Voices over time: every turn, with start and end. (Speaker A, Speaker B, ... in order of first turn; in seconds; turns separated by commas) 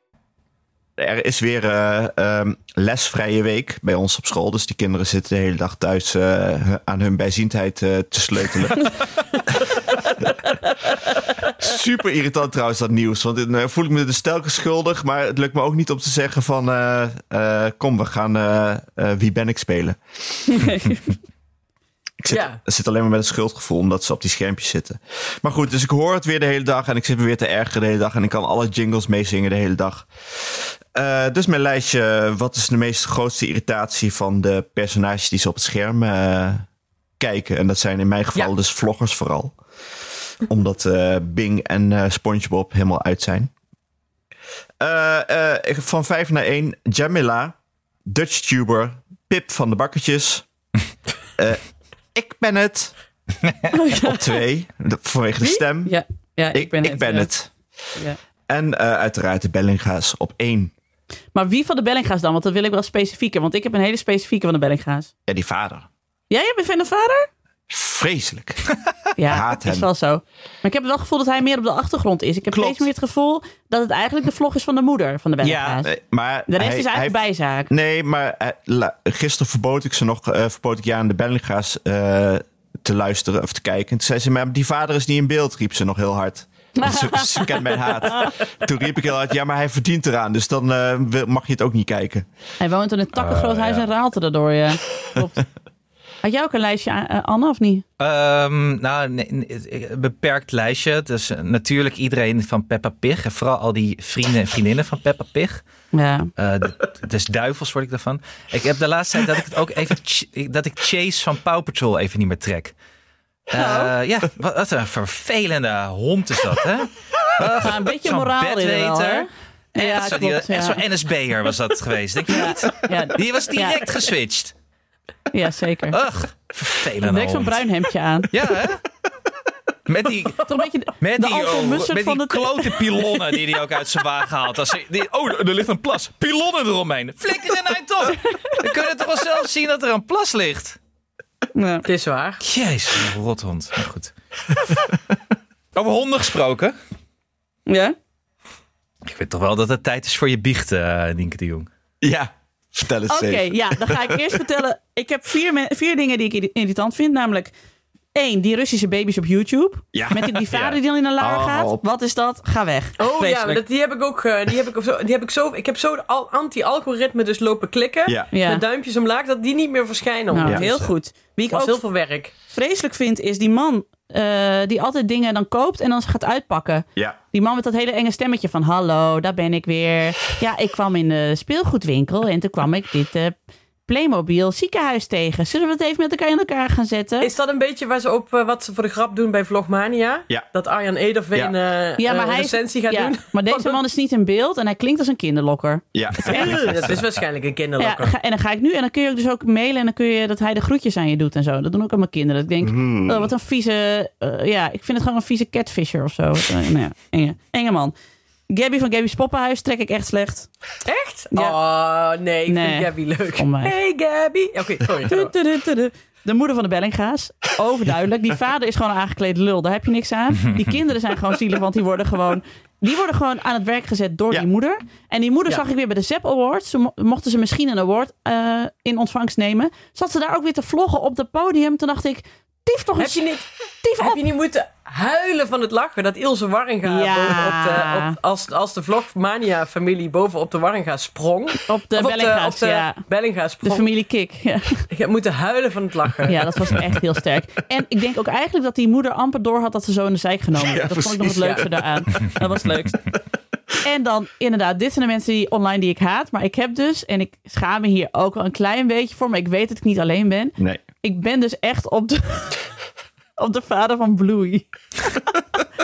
Speaker A: 1.0-9.0, Speaker A: 11.4-20.6, Speaker B: 20.5-21.0, Speaker A: 22.2-36.6, Speaker C: 22.3-22.6, Speaker A: 37.2-39.6, Speaker A: 40.4-43.5, Speaker A: 44.8-47.5, Speaker A: 48.0-50.4, Speaker A: 51.4-52.9, Speaker B: 53.7-54.4, Speaker A: 54.0-56.0, Speaker B: 55.4-57.3, Speaker A: 56.5-57.5, Speaker A: 58.5-60.7, Speaker B: 61.3-65.1, Speaker A: 65.3-65.9, Speaker B: 66.3-67.3, Speaker A: 67.7-68.6, Speaker B: 69.2-75.9, Speaker A: 69.3-69.8, Speaker A: 72.5-72.9, Speaker A: 75.4-92.2, Speaker B: 76.5-77.7, Speaker B: 86.8-88.3, Speaker B: 92.6-95.4, Speaker D: 93.1-93.8, Speaker B: 96.2-97.8, Speaker D: 98.0-105.6, Speaker B: 105.9-106.3, Speaker D: 106.4-112.7, Speaker D: 113.5-124.5, Speaker B: 113.5-113.9, Speaker B: 117.6-120.8, Speaker B: 122.3-123.9, Speaker B: 125.3-126.0, Speaker D: 125.9-127.6, Speaker B: 127.0-128.3, Speaker D: 128.3-128.8, Speaker D: 129.9-140.8, Speaker B: 130.5-132.8, Speaker B: 141.5-141.8, Speaker C: 141.8-142.4, Speaker D: 142.4-144.8, Speaker D: 145.7-146.7, Speaker B: 147.7-147.9, Speaker D: 149.1-151.7, Speaker A: 152.0-154.4, Speaker B: 153.1-157.5, Speaker B: 158.1-163.6, Speaker A: 159.9-161.8, Speaker C: 163.0-170.9, Speaker A: 168.1-168.3, Speaker B: 168.3-168.6, Speaker B: 170.3-171.8, Speaker C: 171.5-172.3, Speaker B: 172.5-183.3, Speaker B: 183.9-187.3, Speaker C: 187.2-193.8, Speaker B: 192.0-196.6, Speaker A: 195.9-196.9, Speaker C: 196.2-198.1, Speaker B: 197.8-207.9, Speaker A: 202.6-203.3, Speaker B: 208.5-210.5, Speaker C: 210.8-215.3, Speaker B: 211.3-211.6, Speaker B: 212.5-213.7, Speaker B: 215.1-233.3, Speaker C: 233.0-233.4, Speaker B: 233.8-234.2, Speaker C: 234.0-243.9, Speaker B: 236.8-238.2, Speaker B: 241.7-243.0, Speaker B: 243.6-244.9, Speaker C: 244.9-246.7, Speaker B: 246.3-253.0, Speaker A: 250.6-251.8, Speaker B: 253.8-262.6, Speaker A: 260.6-260.8, Speaker B: 263.4-265.3